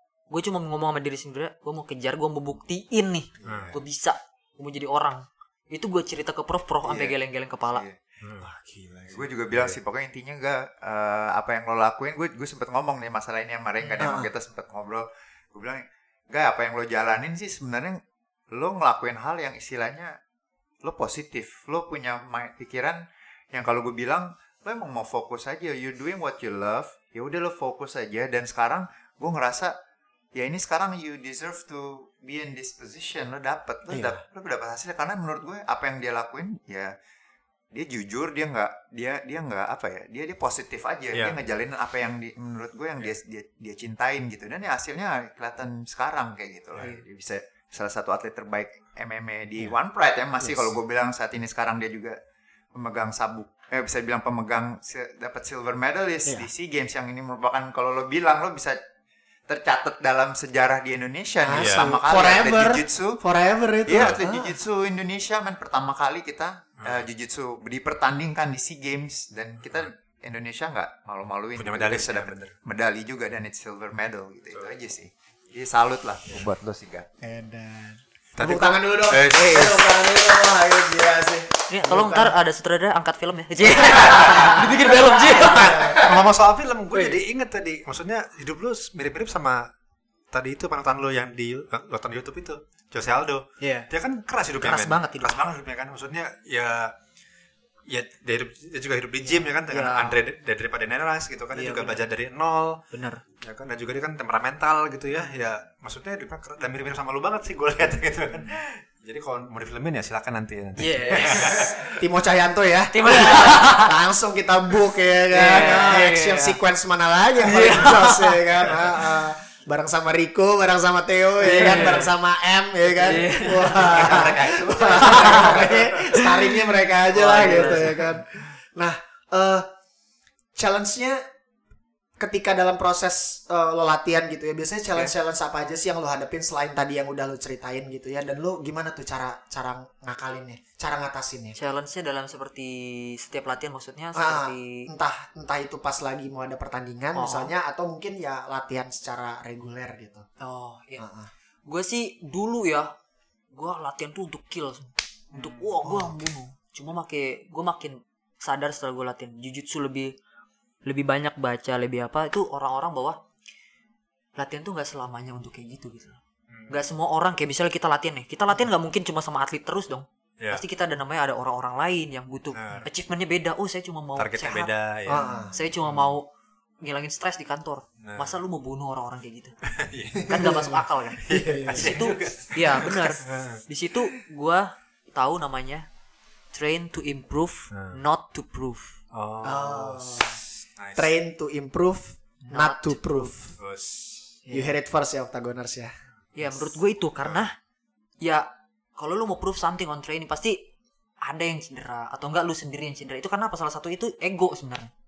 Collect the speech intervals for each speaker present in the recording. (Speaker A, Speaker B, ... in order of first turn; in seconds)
Speaker A: 0.3-7.8, 81.7-86.0, 86.9-87.2, 93.6-93.9, 94.6-95.4, 99.7-100.2, 101.5-102.0, 102.9-103.2, 110.8-111.7, 112.9-114.0, 115.3-116.6, 117.4-118.4, 121.4-122.1, 123.0-128.2, 141.6-144.9, 147.2-147.5, 150.4-151.1, 151.7-152.9, 153.5-160.1, 160.8-163.2, 164.4-174.7, 175.5-176.3, 176.8-179.6, 180.3-185.9, 186.5-188.9, 192.4-193.3, 194.4-194.7, 196.3-197.6, 198.2-200.7, 201.2-204.9
Speaker B: 3.4-3.8, 6.8-7.2, 7.7-8.0, 9.1-18.0, 18.5-20.2, 20.8-23.0, 23.5-29.8, 30.3-37.0, 37.7-52.2, 52.7-58.8, 59.5-63.2, 63.9-77.2
Speaker C: 3.5-3.7, 8.2-8.5, 9.2-9.8, 41.1-41.4, 61.6-62.0, 66.8-67.1, 71.6-72.5, 78.4-79.9, 85.4-89.7, 90.3-97.0, 97.9-102.8, 103.4-112.0, 121.6-122.0, 123.5-126.0, 127.4-127.9, 155.3-155.7, 166.5-166.8, 172.5-172.8, 174.2-176.1, 178.0-178.4, 179.8-180.7, 181.2-183.6, 187.7-188.0, 189.1-191.1, 193.6-194.3
Speaker D: 8.6-9.1, 14.0-14.3, 33.9-34.2, 61.4-64.6, 77.2-82.3, 84.0-84.8, 85.5-86.2, 111.4-129.7, 130.6-131.2, 132.2-141.6, 144.2-150.3, 151.0-151.3, 155.8-156.2, 175.1-175.5, 180.2-182.1, 189.4-190.4, 191.0-193.6, 194.5-195.9